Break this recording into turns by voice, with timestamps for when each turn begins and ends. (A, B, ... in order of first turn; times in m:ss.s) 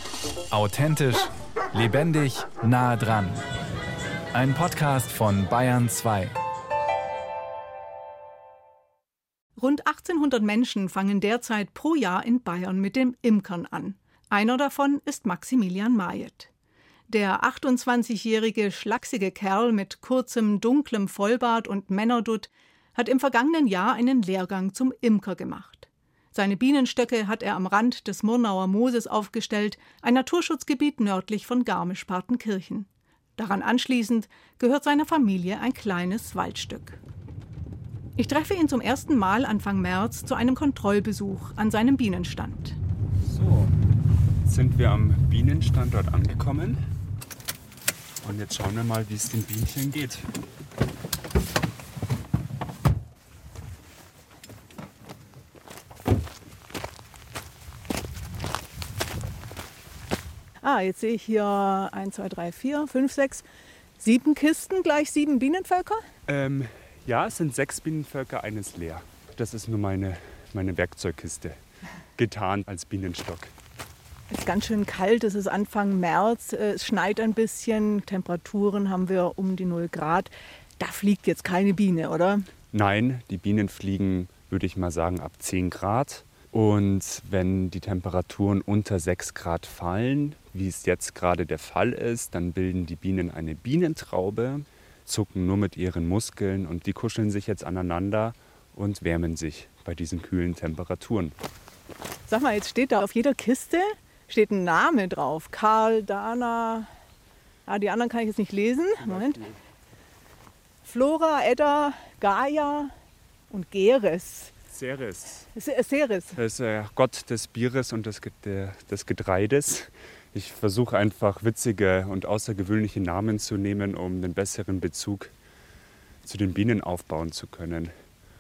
0:00.5-0:03.4 A
0:04.3-0:06.3 A
0:09.6-0:16.5 B
0:17.1-0:37.0 B
0:38.2-0:42.8 B
0:43.2-0:43.8 C
0:44.4-0:46.8 C
0:48.2-0:50.3 C
1:00.6-1:03.4 B
1:04.0-1:06.0 B
1:06.3-1:11.6 C
1:12.2-1:13.5 C
1:14.3-1:22.5 B
1:22.7-1:41.3 C
1:42.3-1:46.9 B
1:47.7-1:49.4 B
1:49.0-1:49.6 C
1:50.8-1:52.9 B
1:53.5-1:54.5 B
1:54.7-1:55.5 C
1:55.6-1:56.4 B
1:56.4-2:05.3 C
2:06.2-2:07.9 C